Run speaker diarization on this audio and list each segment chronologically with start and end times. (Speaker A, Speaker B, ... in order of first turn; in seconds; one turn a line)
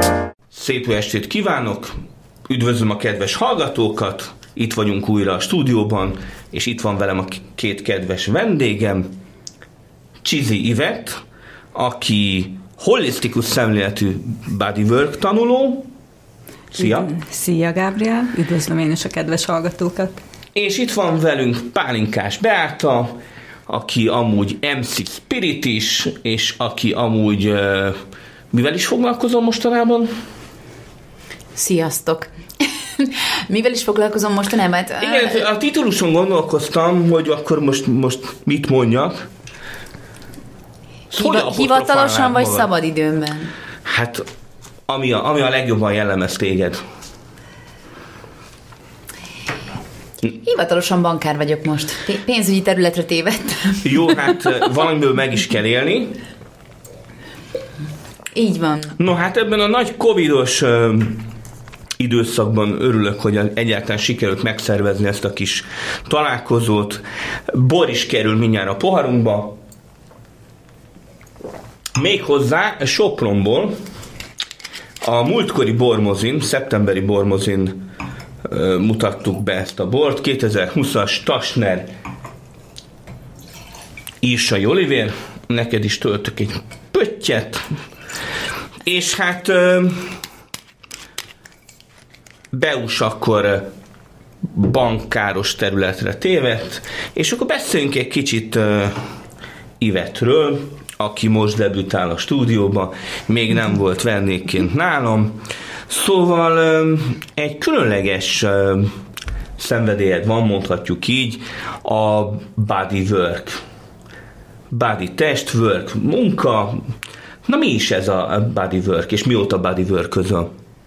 Speaker A: 0.5-1.9
Speaker A: 2.5-9.1
Speaker A: 10.2-11.2
Speaker A: 11.7-15.9
Speaker A: 16.7-17.1
Speaker B: 16.7-20.2
Speaker A: 20.5-23.1
Speaker A: 23.7-27.9
Speaker A: 28.5-30.1
Speaker C: 31.6-35.4
Speaker A: 35.0-39.2
Speaker A: 41.1-42.7
Speaker C: 41.1-43.5
Speaker A: 43.9-44.2
Speaker A: 44.9-46.8
Speaker C: 50.3-54.2
Speaker A: 53.8-56.1
Speaker C: 58.3-59.0
Speaker A: 59.0-61.2
Speaker A: 62.0-69.6
Speaker A: 72.0-73.7
Speaker A: 75.0-77.8
Speaker A: 78.5-81.9
Speaker A: 84.2-87.7
Speaker A: 88.8-90.0
Speaker A: 92.5-93.7
Speaker A: 94.5-99.0
Speaker A: 99.8-108.9
Speaker A: 109.6-113.6
Speaker A: 114.7-116.8
Speaker A: 117.4-120.5